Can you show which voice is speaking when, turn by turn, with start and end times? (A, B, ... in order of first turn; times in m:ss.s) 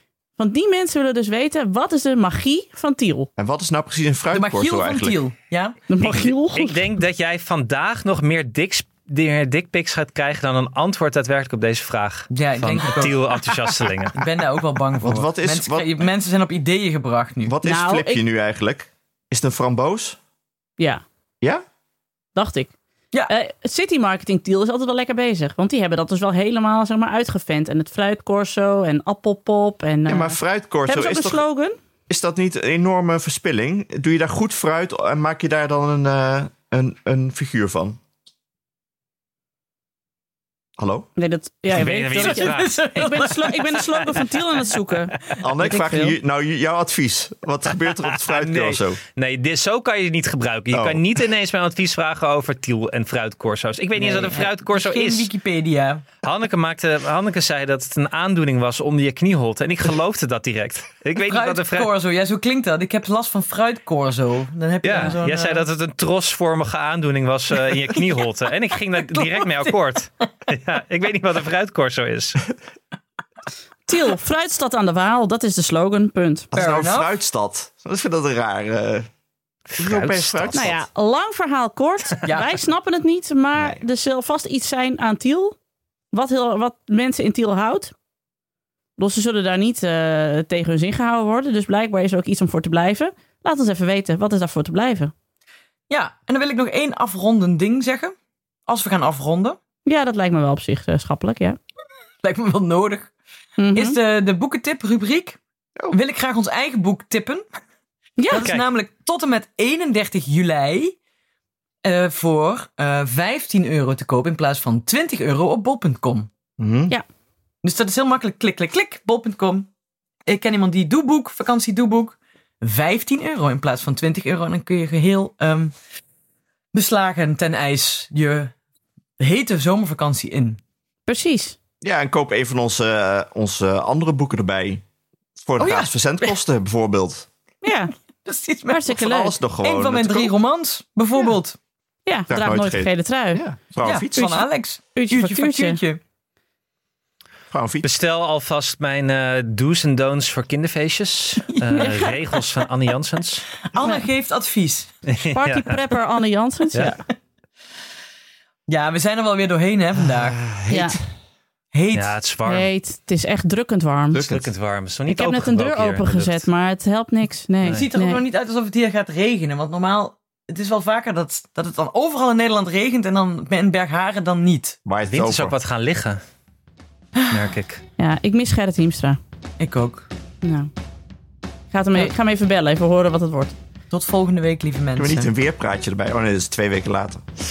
0:00.4-0:03.3 A
0:03.4-0:05.2 B
0:04.3-0:05.8 C
0:05.9-0:06.9 A
0:06.0-0:14.3 D
0:12.3-0:17.6 C
0:15.0-0:16.0 B
0:17.4-0:20.2 B
0:17.6-0:18.2 A
0:22.4-0:22.7 A
0:23.3-0:31.8 A
0:30.1-0:31.4 B
0:32.1-0:38.0 B
0:40.8-0:41.1 B
0:41.2-0:46.2 A
0:41.7-0:42.8 D
0:42.1-0:44.3 C
0:45.4-0:49.0 B
0:48.2-0:55.3 D
0:50.7-0:51.0 B
0:54.0-0:56.0 C
0:56.2-1:01.9 D
1:01.2-1:05.7 C
1:04.8-1:12.4 D
1:07.6-1:08.2 C
1:08.9-1:09.8 C
1:13.9-1:16.5 A
1:16.5-1:19.1 B
1:16.5-1:17.1 C
1:19.7-1:20.6 D
1:19.8-1:20.9 B
1:20.5-1:25.6 A
1:22.2-1:22.6 C
1:23.6-1:23.8 B
1:26.1-1:27.9 A
1:29.0-1:35.1 A
1:35.9-1:38.2 C
1:38.7-1:39.6 C
1:39.9-1:41.6 A
1:42.2-1:43.1 C
1:43.6-1:44.0 A
1:43.8-1:45.4 C
1:45.9-1:47.4 C
1:48.2-1:48.5 A
1:48.3-1:51.0 C
1:51.8-1:56.3 C
1:56.6-1:57.0 B
1:57.6-1:59.7 C
2:00.3-2:05.7 C
2:06.7-2:08.5 C
2:09.2-2:10.6 C
2:11.1-2:11.6 A
2:11.8-2:14.8 B
2:15.4-2:17.3 B
2:15.6-2:16.4 C
2:17.6-2:17.9 A
2:18.2-2:19.0 C
2:18.7-2:19.4 A
2:18.9-2:20.3 B
2:19.6-2:21.6 C
2:22.1-2:23.4 A
2:22.3-2:24.4 B
2:23.8-2:26.0 C
2:24.2-2:25.8 A
2:27.5-2:27.9 B
2:27.8-2:33.5 D
2:31.6-2:32.4 C
2:33.6-2:35.0 C
2:35.1-2:35.8 D
2:35.2-2:37.0 A
2:38.7-2:40.4 C
2:40.1-2:41.0 B
2:40.7-2:41.0 A
2:41.7-2:42.2 C
2:41.9-2:42.7 D
2:42.5-2:44.2 A
2:44.1-2:44.5 B
2:44.3-2:46.5 D
2:45.1-2:48.2 A
2:47.6-2:54.8 C
2:54.9-2:55.6 B
2:55.1-2:56.2 D
2:57.3-2:57.8 D
2:58.0-2:59.2 A
2:59.6-3:00.1 C
3:00.4-3:00.7 A
3:01.7-3:03.5 A
3:03.9-3:05.3 C
3:05.0-3:07.3 B